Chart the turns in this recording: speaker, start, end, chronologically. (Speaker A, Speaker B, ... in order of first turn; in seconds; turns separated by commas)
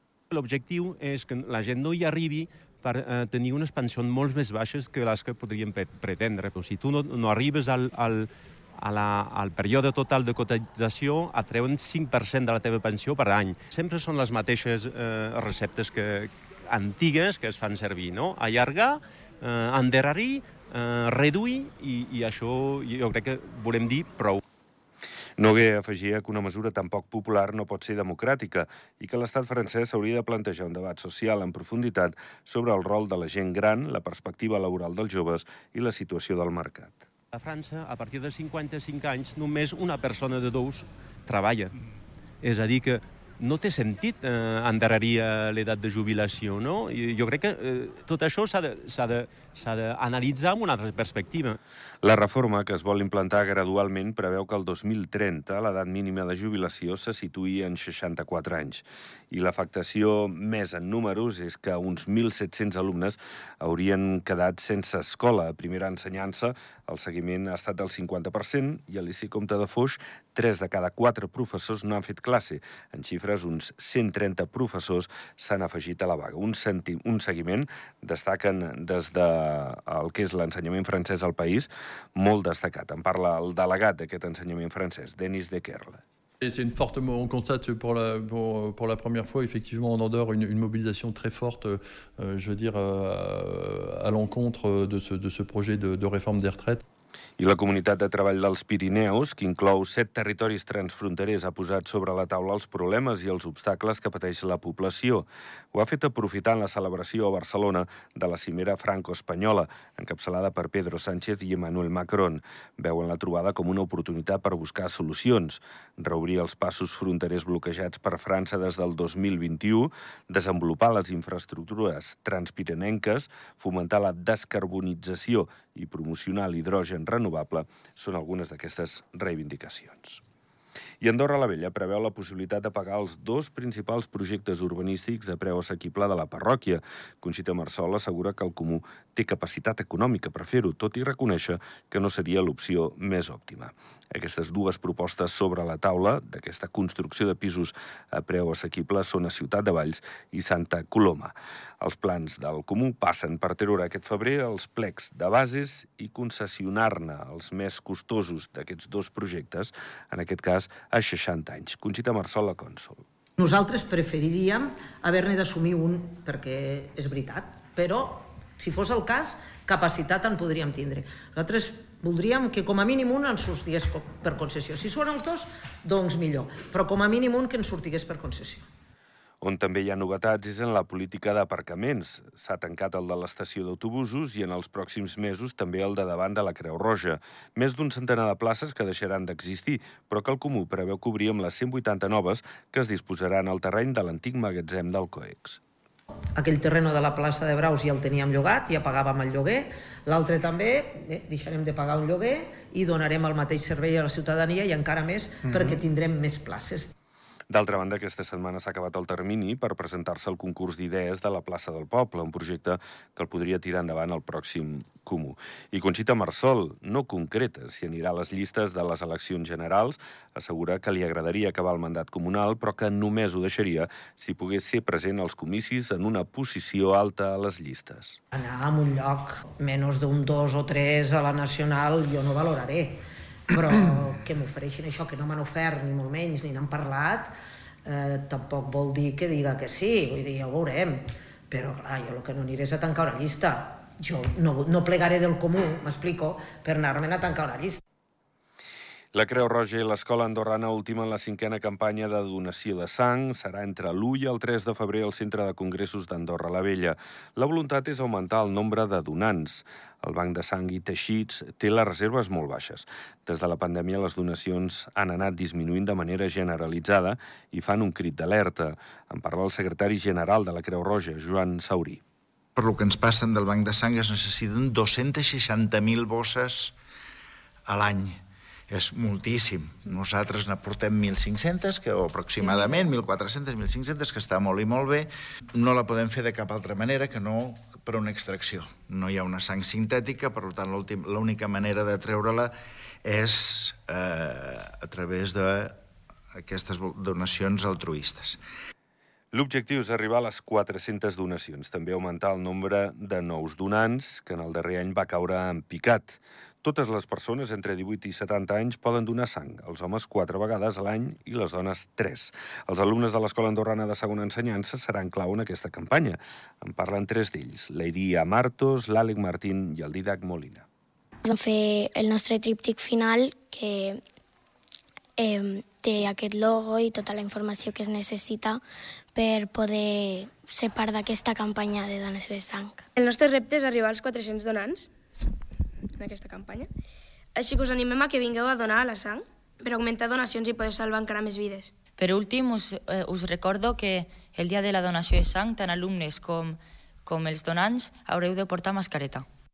Speaker A: 0.3-24.4, Speaker B: 25.4-37.0, Speaker A: 37.3-41.7, Speaker A: 42.4-51.6, Speaker B: 52.0-86.0, Speaker C: 86.4-96.8, Speaker B: 97.4-130.2, Speaker B: 131.0-163.0, Speaker D: 163.4-178.7, Speaker B: 179.4-195.6, Speaker D: 196.3-206.9, Speaker B: 207.5-228.2, Speaker D: 228.3-237.3, Speaker D: 237.8-247.8, Speaker B: 249.1-272.0, Speaker E: 272.6-276.7, Speaker E: 277.7-292.5, Speaker E: 293.0-295.8, Speaker E: 296.4-298.4, Speaker B: 299.3-320.6, Speaker F: 321.2-324.0, Speaker F: 325.2-328.6, Speaker F: 329.1-332.8, Speaker G: 332.9-334.9, Speaker G: 336.0-336.7, Speaker G: 337.3-341.7, Speaker H: 342.0-349.2